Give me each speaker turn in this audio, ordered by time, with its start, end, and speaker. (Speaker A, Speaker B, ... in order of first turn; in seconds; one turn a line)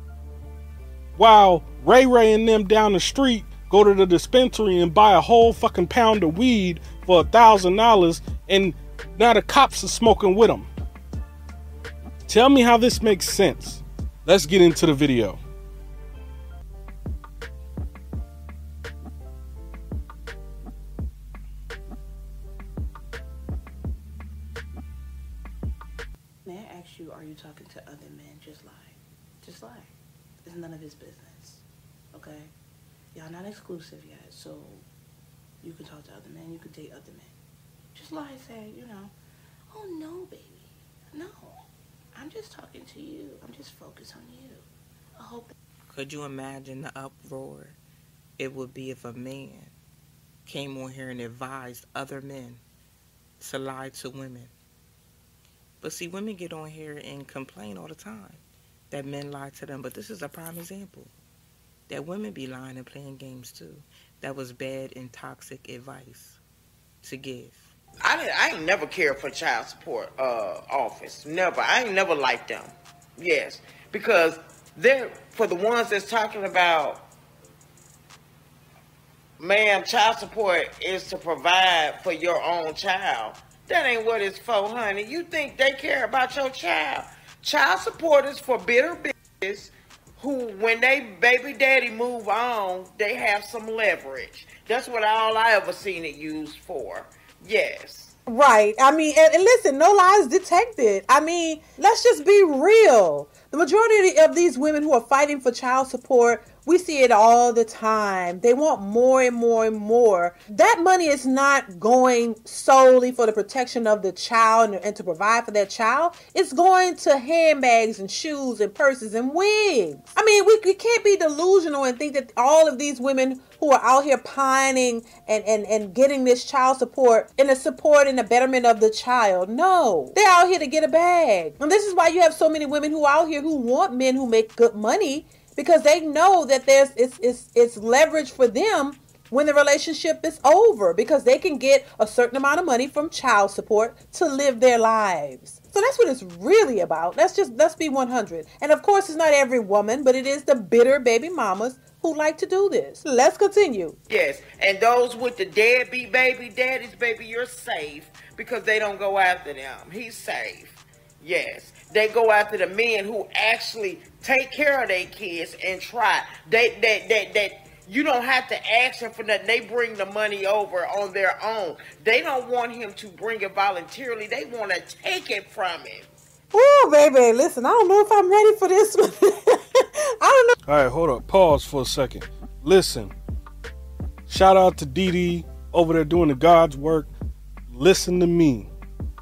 Speaker A: 1.2-10.7
Speaker A: 12.3-15.4
Speaker B: 26.4-31.6
Speaker B: 32.1-32.5
Speaker B: 33.1-34.9
Speaker B: 35.6-37.3
Speaker B: 37.9-39.1
Speaker B: 39.7-41.6
Speaker B: 42.1-45.5
Speaker C: 45.9-47.8
Speaker C: 48.4-49.7
Speaker C: 50.5-52.6
Speaker C: 53.4-54.5
Speaker C: 55.8-61.1
Speaker C: 61.9-66.4
Speaker C: 67.0-67.7
Speaker D: 68.0-77.0
Speaker D: 79.4-98.2
Speaker E: 98.3-154.0
Speaker D: 154.1-176.1
Speaker E: 176.5-180.5
Speaker A: 180.7-183.1
Speaker A: 184.3-187.1
Speaker A: 187.7-188.7